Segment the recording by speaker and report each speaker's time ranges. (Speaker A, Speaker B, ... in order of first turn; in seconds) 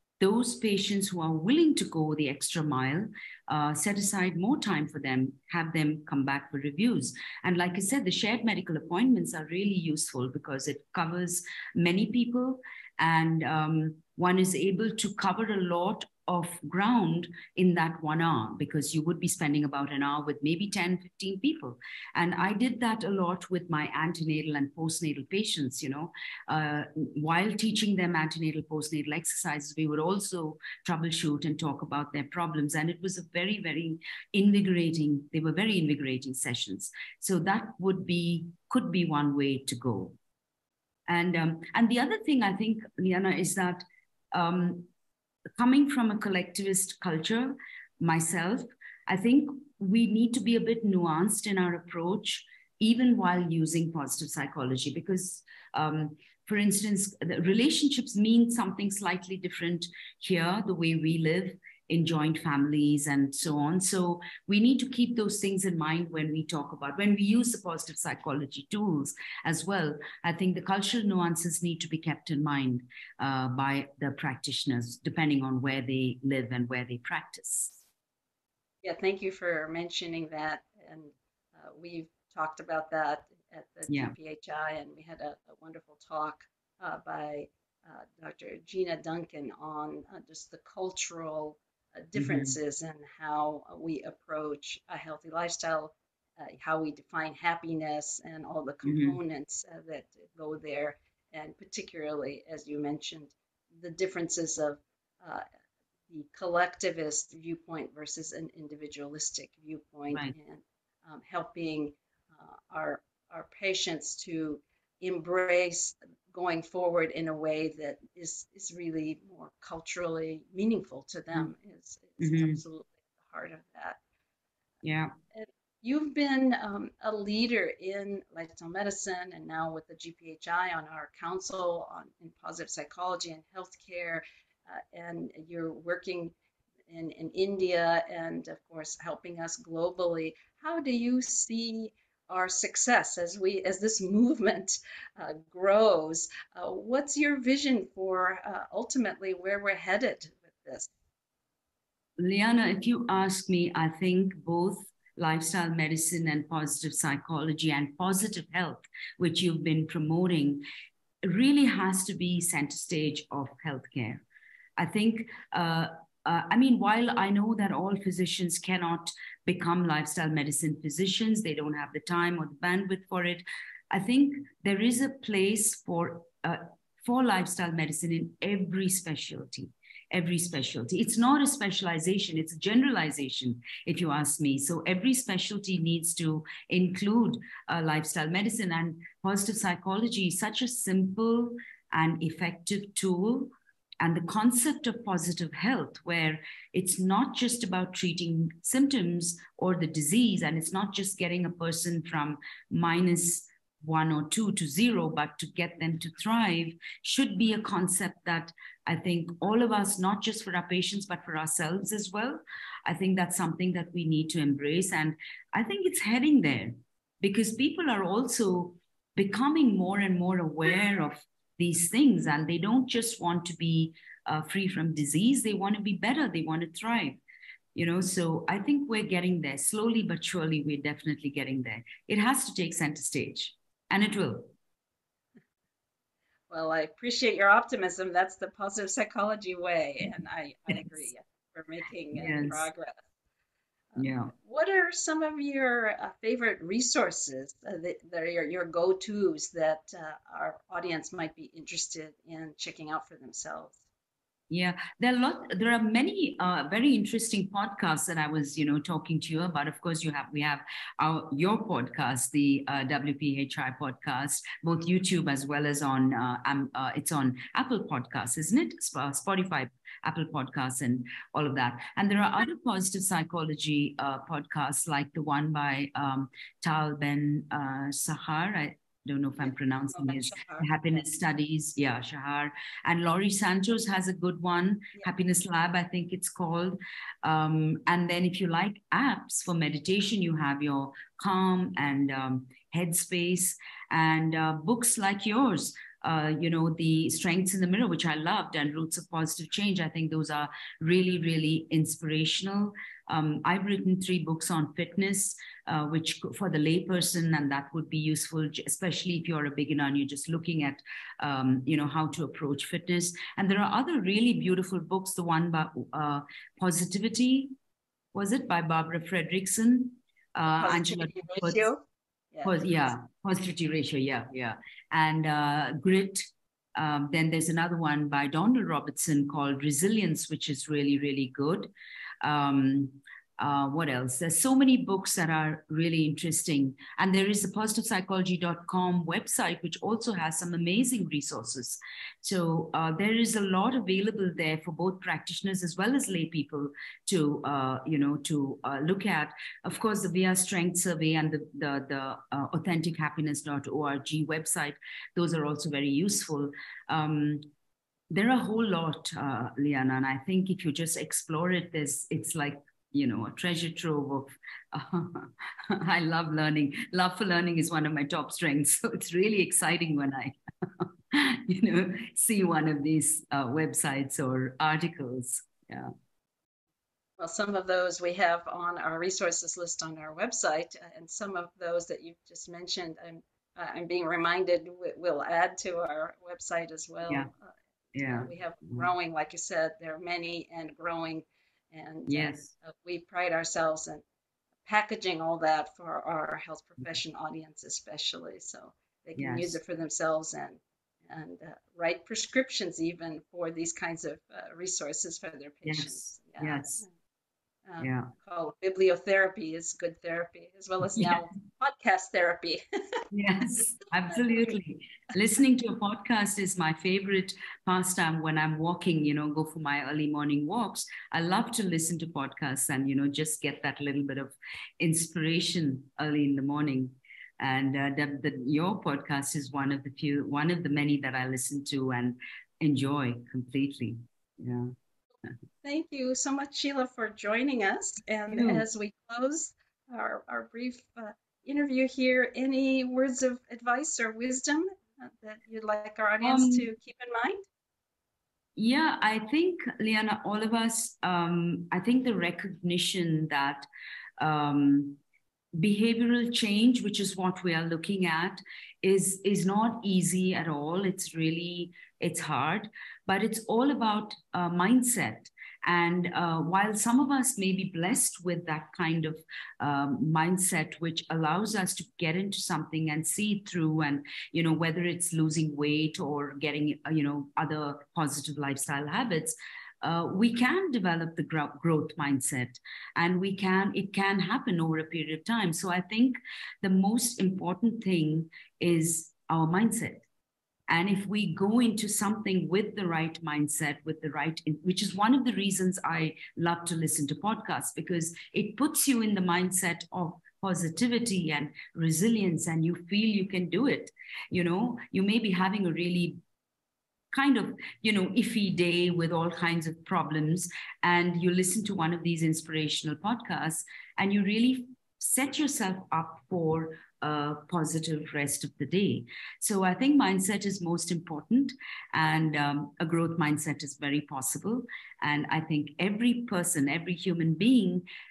Speaker A: 0.2-40.2, 41.1-44.9, 45.6-77.8, 83.9-84.2, 92.2-92.5, 98.8-99.2, 110.1-110.3, 122.2-122.6, 124.8-125.1, 152.2-160.6, 161.2-164.2, 164.8-227.2, 227.8-234.5, 240.7-241.0, 242.1-242.7, 244.0-244.3, 254.5-317.5, 318.1-321.7, 322.4-357.4, 358.1-375.9, 387.9-388.9, 392.1-392.5, 399.2-399.6, 405.6-406.9, 407.8-408.1, 410.9-411.2, 413.1-434.7, 438.3-438.6, 446.2-446.7, 448.6-453.7, 454.2-455.0, 455.6-490.1, 490.7-506.2, 507.1-527.9
Speaker B: 78.8-105.4, 106.1-124.0, 125.3-136.3, 136.9-150.9, 236.5-243.0, 243.9-253.8, 279.9-281.0, 320.6-321.8, 322.3-322.9, 377.2-394.0, 394.6-406.9, 407.7-412.6, 414.1-414.6, 435.6-447.5